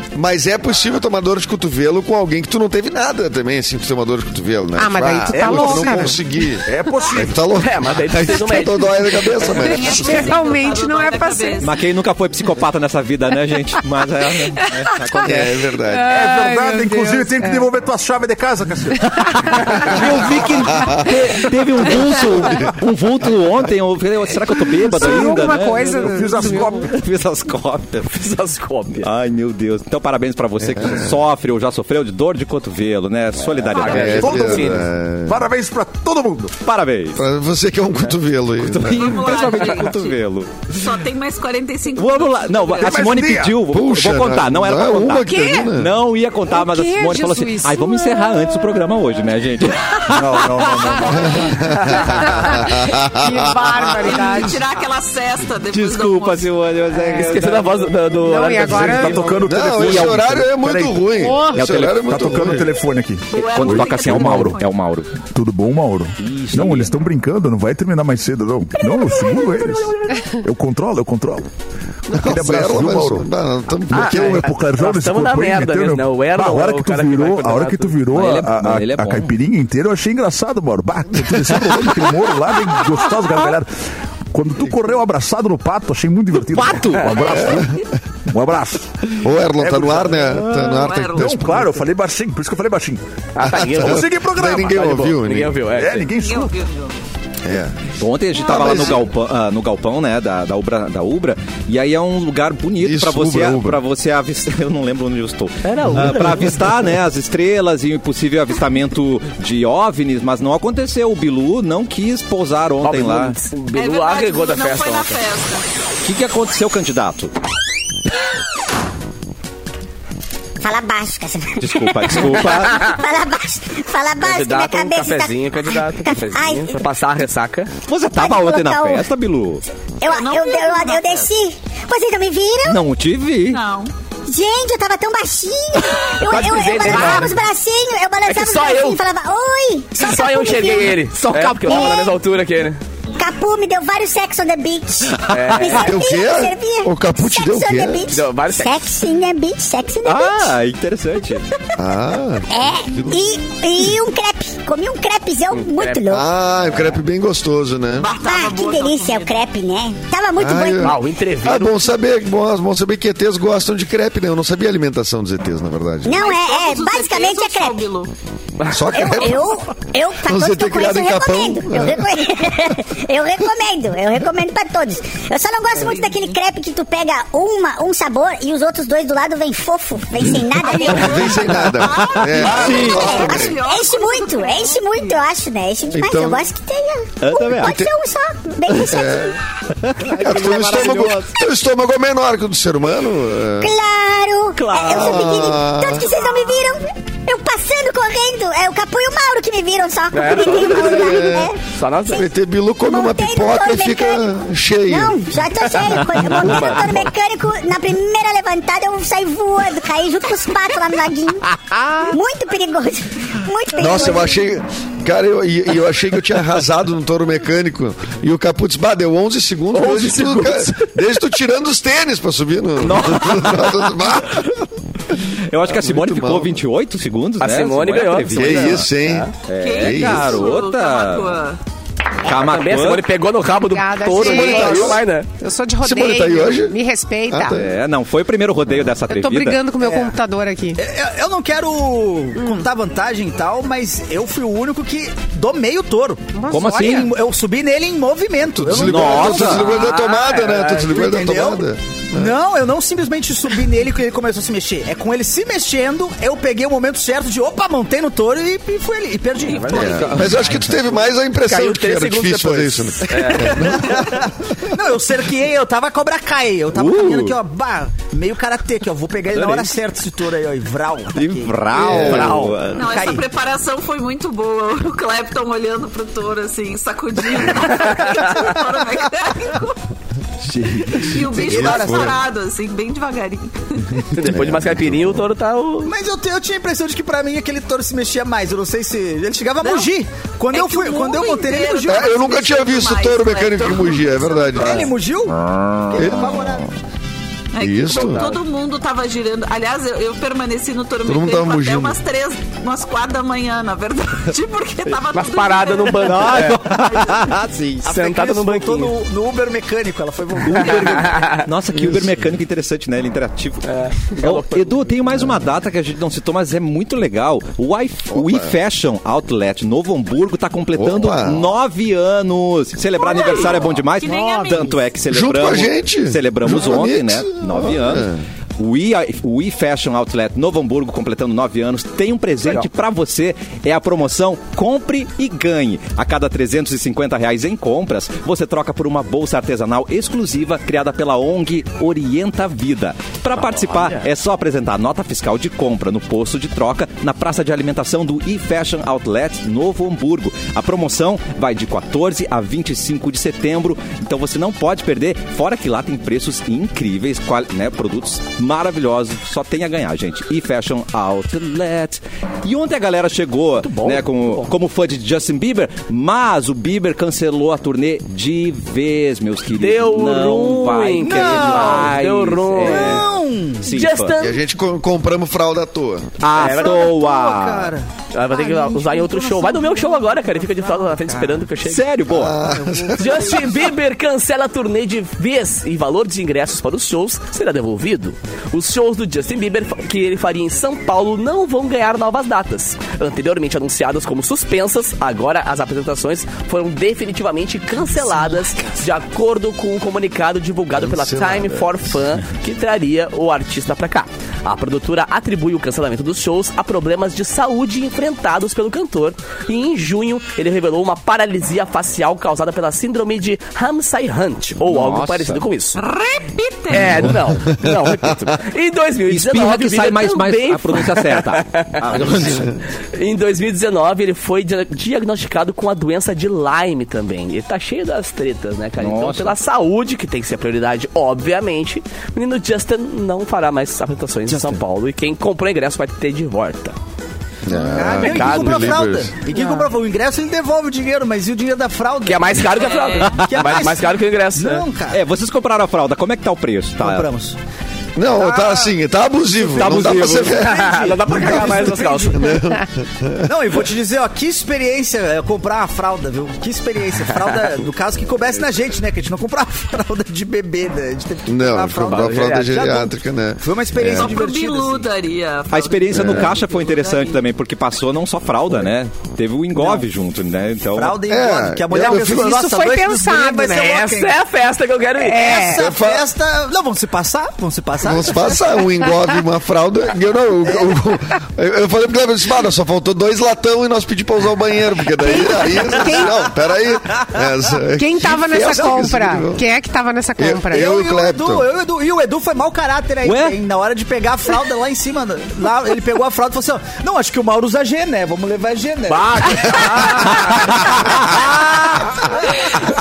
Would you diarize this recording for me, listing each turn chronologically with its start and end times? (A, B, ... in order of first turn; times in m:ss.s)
0:00.1-0:10.3 A
0:04.8-0:06.2 B
0:05.3-0:07.5 C
0:07.6-0:09.5 D
0:09.3-0:11.8 E
0:09.5-0:11.7 B
0:11.6-0:15.5 F
0:14.6-0:15.2 B
0:15.2-0:16.1 A
0:15.9-0:17.6 B
0:16.1-0:20.7 C
0:19.0-0:28.1 F
0:19.4-0:19.8 B
0:20.7-0:21.2 A
0:24.9-0:26.9 B
0:25.0-0:26.9 C
0:28.0-0:29.1 D
0:29.0-0:34.4 F
0:30.6-0:31.2 A
0:33.6-0:34.8 D
0:33.8-0:35.4 A
0:34.0-0:36.6 C
0:36.6-0:37.2 F
0:37.1-0:39.3 A
0:38.6-0:40.8 F
0:38.9-0:40.1 E
0:40.7-0:43.1 E
0:41.9-0:51.0 F
0:42.8-0:43.6 C
0:43.6-0:45.9 A
0:45.2-0:45.7 B
0:46.5-0:48.4 B
0:50.1-0:51.4 C
0:51.2-0:54.0 A
0:52.2-0:54.6 B
0:54.0-0:56.6 E
0:55.7-0:57.8 F
0:56.9-0:57.4 B
0:57.1-0:59.4 D
0:58.2-0:59.4 B
0:58.6-1:01.3 C
0:59.4-1:02.7 A
0:59.7-1:00.3 F
1:01.2-1:01.6 B
1:01.5-1:02.1 F
1:01.9-1:04.6 C
1:03.3-1:04.7 E
1:03.4-1:05.1 F
1:05.3-1:11.5 C
1:06.2-1:06.9 F
1:09.2-1:09.8 D
1:12.1-1:14.5 A
1:12.1-1:13.3 C
1:13.9-1:23.7 C
1:13.9-1:18.0 D
1:18.1-1:19.3 F
1:24.3-1:27.7 C
1:26.6-1:27.0 B
1:27.2-1:27.8 E
1:27.3-1:27.8 A
1:28.3-1:28.9 C
1:29.2-1:31.8 A
1:29.6-1:35.1 C
1:30.4-1:31.4 E
1:33.3-1:36.1 D
1:33.4-1:35.6 A
1:35.7-1:36.5 C
1:36.1-1:37.0 E
1:37.4-1:37.8 A
1:38.0-1:53.4 F
1:38.3-1:38.9 E
1:38.4-1:39.0 A
1:42.8-1:43.8 A
1:45.6-1:46.9 D
1:52.8-1:55.2 D
1:53.7-1:55.7 E
1:56.0-1:57.3 F
2:00.6-2:06.8 G
2:01.6-2:02.9 F
2:04.2-2:07.7 D
2:07.9-2:09.6 F
2:08.1-2:09.1 G
2:10.0-2:12.8 G
2:10.0-2:11.3 E
2:12.6-2:13.6 F
2:13.5-2:13.9 E
2:14.3-2:21.0 G
2:16.2-2:17.4 D
2:18.2-2:19.0 D
2:20.0-2:22.8 D
2:21.3-2:22.1 B
2:21.6-2:22.1 G
2:23.2-2:30.6 G
2:25.1-2:25.6 F
2:25.3-2:25.9 D
2:25.8-2:28.1 A
2:28.1-2:28.8 D
2:30.0-2:31.4 F
2:31.8-2:33.3 A
2:32.5-2:36.3 G
2:35.5-2:36.0 D
2:36.1-2:38.1 A
2:38.0-2:39.4 E
2:38.2-2:41.0 G
2:40.4-2:46.2 A
2:40.8-2:41.8 D
2:46.0-2:47.9 G
2:46.1-2:48.1 E
2:48.6-2:48.9 D
2:48.7-2:49.5 A
2:48.9-3:01.2 G
2:49.0-2:49.4 E
2:50.2-2:52.4 A
2:55.8-2:56.4 E
3:00.6-3:05.2 E
3:00.8-3:03.6 A
3:02.0-3:03.1 F
3:02.4-3:09.3 G
3:05.9-3:06.5 A
3:07.2-3:07.8 F
3:07.6-3:07.9 A
3:08.7-3:09.0 F
3:08.8-3:09.4 A
3:09.7-3:11.3 F
3:10.0-3:13.7 A
3:13.6-3:21.6 G
3:14.6-3:15.2 F
3:14.8-3:16.1 A
3:16.1-3:16.5 E
3:20.1-3:22.3 D
3:20.6-3:21.5 A
3:22.1-3:25.2 A
3:22.8-3:24.2 G
3:24.9-3:31.5 G
3:26.2-3:27.1 D
3:32.1-3:34.4 G
3:33.7-3:44.5 A
3:39.7-3:40.8 D
3:42.8-3:43.8 F
3:45.5-3:48.9 F
3:45.7-3:46.6 A
3:47.4-3:49.3 D
3:48.3-3:50.4 A
3:49.5-3:51.3 F
3:49.5-3:51.6 E
3:52.2-3:53.1 F
3:52.2-3:55.3 D
3:53.7-3:57.6 B
3:54.1-3:55.0 A
3:55.8-3:56.8 A
3:57.3-3:57.7 A
3:57.5-3:59.6 F
3:59.1-4:00.8 B
3:59.8-4:00.2 H
4:00.8-4:09.8 H
4:02.4-4:02.6 B
4:06.3-4:07.1 B
4:06.5-4:07.1 F
4:08.6-4:12.4 A
4:08.8-4:09.7 F
4:09.6-4:10.8 D
4:10.6-4:20.4 H
4:19.5-4:20.4 D
4:19.6-4:20.3 E
4:19.7-4:24.2 A
4:21.4-4:23.9 D
4:23.3-4:33.2 H
4:26.7-4:27.4 F
4:29.3-4:29.7 F
4:31.1-4:32.8 F
4:31.8-4:32.4 A
4:31.9-4:32.6 D
4:32.7-4:39.8 E
4:37.8-4:38.0 D
4:40.5-4:41.4 F
4:41.0-4:44.0 E
4:41.1-4:42.2 H
4:41.4-4:42.2 A
4:44.1-4:45.9 D
4:44.2-4:45.2 A
4:45.8-4:52.2 H
4:49.6-4:49.9 E
4:50.5-4:54.9 E
4:51.9-4:54.9 A
4:54.6-4:56.7 H
4:55.9-4:56.5 A
4:57.5-5:07.4 E
4:57.6-4:58.2 A
4:57.9-4:58.4 D
5:01.0-5:02.0 A
5:04.9-5:06.7 D
5:06.0-5:07.8 F
5:07.8-5:11.3 H
5:07.8-5:09.0 D
5:10.4-6:13.1 F
5:11.1-5:11.4 D
5:13.6-5:14.9 D
5:18.1-5:18.5 A
5:20.8-5:21.5 A
5:23.0-5:24.8 E
5:23.1-5:23.6 D
5:24.1-5:24.6 H
5:25.1-5:28.2 A
5:43.4-5:44.0 D
6:03.6-6:04.5 D
6:09.6-6:13.1 D
6:11.0-6:12.0 H
6:12.6-6:13.7 H
6:13.6-6:14.2 F
6:13.7-6:14.4 D
6:14.2-6:16.1 A
6:16.2-6:17.7 F
6:16.4-6:16.9 D
6:16.4-6:21.4 H
6:18.1-6:21.8 D
6:21.6-6:22.4 F
6:22.1-6:23.4 A
6:22.4-6:23.5 H
6:23.0-6:55.8 D
6:40.8-6:41.9 A
6:54.6-6:55.4 F
6:55.7-6:57.1 E
6:56.7-7:02.4 D
6:57.2-6:58.3 A
6:59.1-7:02.6 F
7:02.9-7:16.8 D
7:08.8-7:09.3 F
7:14.3-7:14.6 H
7:17.4-7:19.1 A
7:17.5-7:25.0 H
7:18.0-7:18.9 D
7:19.3-7:19.7 B
7:22.0-7:24.6 D
7:22.5-7:23.2 E
7:23.2-7:23.5 F
7:24.9-7:27.1 F
7:26.8-7:27.4 H
7:28.0-7:33.3 A
7:28.2-7:28.7 H
7:29.5-7:30.4 F
7:29.6-7:32.4 D
7:30.5-7:32.2 H
7:33.2-7:44.9 H
7:41.2-7:44.2 A
7:41.9-7:42.6 D
7:43.9-7:47.1 E
7:45.5-7:51.0 F
7:45.9-7:46.3 A
7:49.5-7:49.8 H
7:50.7-7:54.2 H
7:51.1-7:52.4 A
7:51.9-7:53.9 B
7:53.6-7:55.3 D
7:55.0-7:55.6 B
7:55.1-7:58.6 H
7:55.5-7:56.1 A
7:57.8-8:09.4 A
8:05.0-8:06.2 B
8:05.8-8:06.2 H
8:07.8-8:10.7 B
8:10.2-8:11.5 A
8:10.5-8:22.2 H
8:13.0-8:13.4 F
8:18.9-8:20.7 D